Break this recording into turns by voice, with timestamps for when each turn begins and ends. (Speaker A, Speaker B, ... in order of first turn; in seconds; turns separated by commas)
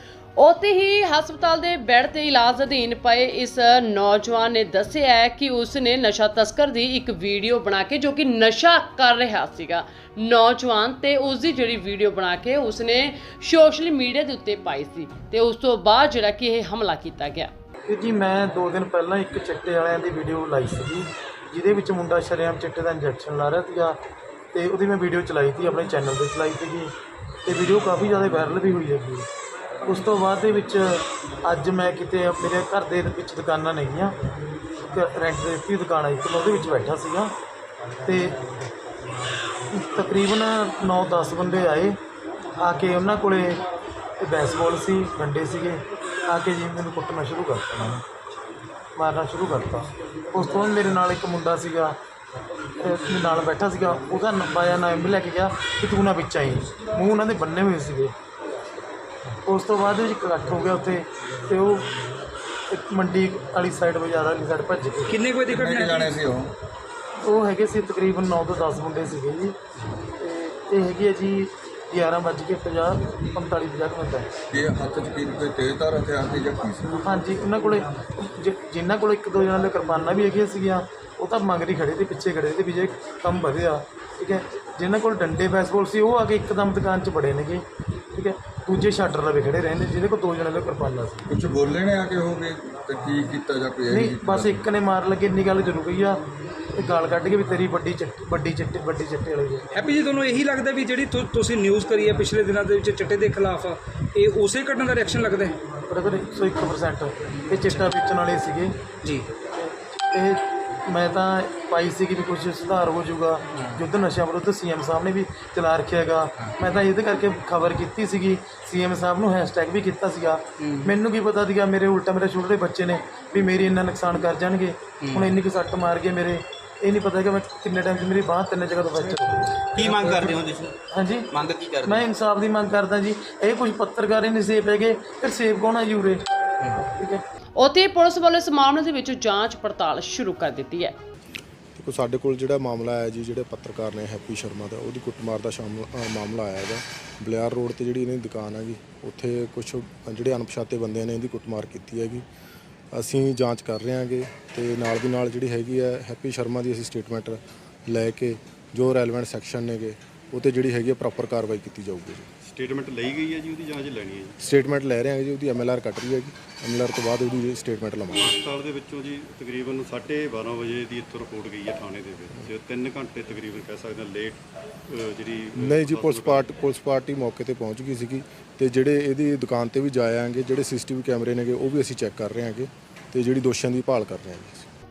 Speaker A: 0.4-17.5, Speaker B: 17.9-24.0, Speaker B: 24.5-26.9, Speaker B: 27.4-29.3, Speaker B: 29.9-34.2, Speaker B: 34.9-37.3, Speaker B: 38.0-38.4, Speaker B: 39.7-42.0, Speaker B: 42.6-43.6, Speaker B: 44.2-48.0, Speaker B: 49.0-52.0, Speaker B: 52.8-58.1, Speaker B: 59.4-61.9, Speaker B: 62.7-65.2, Speaker C: 65.1-66.1, Speaker D: 65.4-66.5, Speaker B: 67.2-69.6, Speaker B: 70.2-74.3, Speaker D: 74.5-77.1, Speaker B: 77.0-91.3, Speaker D: 91.3-94.7, Speaker B: 93.9-99.7, Speaker C: 99.7-105.6, Speaker B: 105.9-108.8, Speaker C: 109.0-109.3, Speaker B: 109.4-130.4, Speaker E: 120.6-120.9, Speaker E: 125.0-125.4, Speaker E: 129.7-130.8, Speaker B: 130.9-136.2, Speaker E: 131.3-132.1, Speaker B: 136.8-137.2, Speaker A: 137.6-141.0, Speaker F: 141.8-152.2, Speaker F: 152.9-162.3, Speaker G: 162.4-164.4, Speaker F: 164.4-168.4, Speaker G: 168.1-176.6, Speaker F: 175.6-184.7